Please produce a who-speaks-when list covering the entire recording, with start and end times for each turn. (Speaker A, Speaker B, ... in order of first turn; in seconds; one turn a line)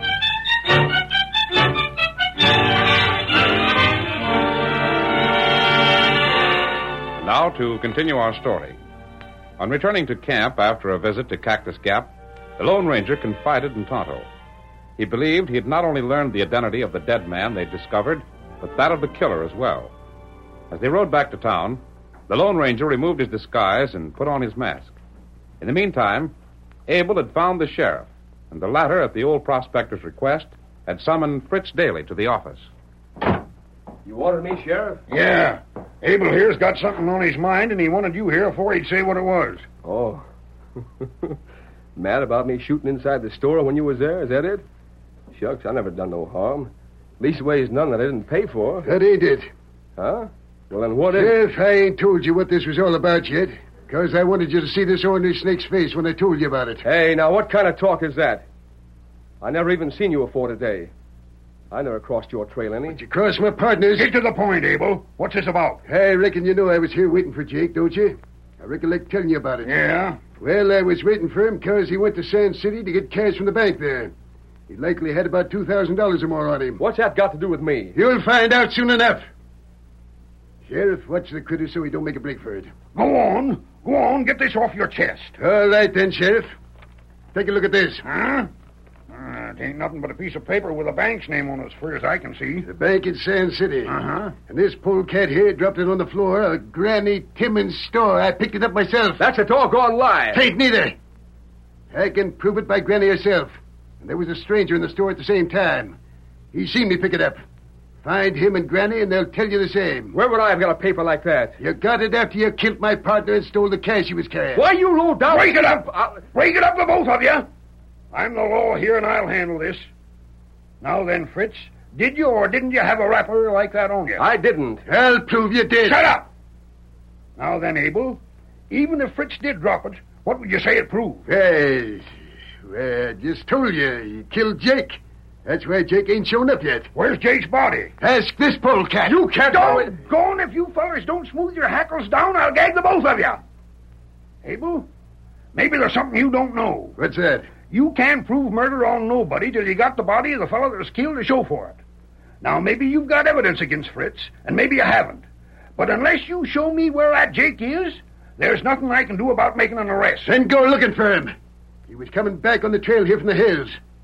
Speaker A: 7.2-8.8
Speaker A: 9.6-14.3
Speaker A: 15.0-19.9
Speaker A: 20.7-25.0
Speaker A: 25.6-26.3
Speaker A: 26.9-32.7
Speaker B: 34.0-35.0
Speaker C: 35.1-39.7
Speaker B: 39.8-40.2
Speaker B: 41.0-41.4
Speaker B: 42.0-44.6
Speaker B: 45.3-48.9
Speaker D: 48.9-49.5
Speaker B: 50.0-51.4
Speaker D: 51.1-56.9
Speaker B: 56.8-58.4
Speaker B: 59.4-60.9
Speaker B: 61.7-63.0
Speaker D: 62.9-64.1
Speaker C: 64.0-65.8
Speaker D: 65.9-69.7
Speaker C: 69.6-70.2
Speaker D: 70.4-74.1
Speaker D: 74.7-76.8
Speaker B: 76.8-78.0
Speaker D: 77.9-79.3
Speaker D: 80.7-82.7
Speaker C: 83.0-85.4
Speaker D: 85.4-86.5
Speaker D: 87.3-88.0
Speaker C: 88.0-88.5
Speaker C: 89.1-92.7
Speaker D: 92.6-94.0
Speaker C: 93.9-94.3
Speaker D: 94.5-99.2
Speaker B: 99.2-100.4
Speaker D: 100.3-101.0
Speaker D: 101.9-106.0
Speaker D: 106.5-107.4
Speaker D: 108.0-110.2
Speaker B: 110.1-111.6
Speaker D: 111.6-114.7
Speaker B: 114.5-116.2
Speaker C: 115.3-117.5
Speaker C: 118.1-119.9
Speaker C: 120.8-124.2
Speaker B: 124.2-124.8
Speaker D: 124.9-126.0
Speaker C: 125.8-126.3
Speaker C: 127.4-131.3
Speaker D: 131.3-132.1
Speaker D: 132.6-136.9
Speaker C: 136.9-137.9
Speaker D: 138.0-140.0
Speaker C: 139.1-143.4
Speaker C: 144.4-144.9
Speaker C: 145.5-147.0
Speaker D: 147.0-147.5
Speaker C: 147.6-151.8
Speaker C: 152.4-155.2
Speaker C: 155.8-160.3
Speaker D: 160.2-161.3
Speaker D: 161.9-163.8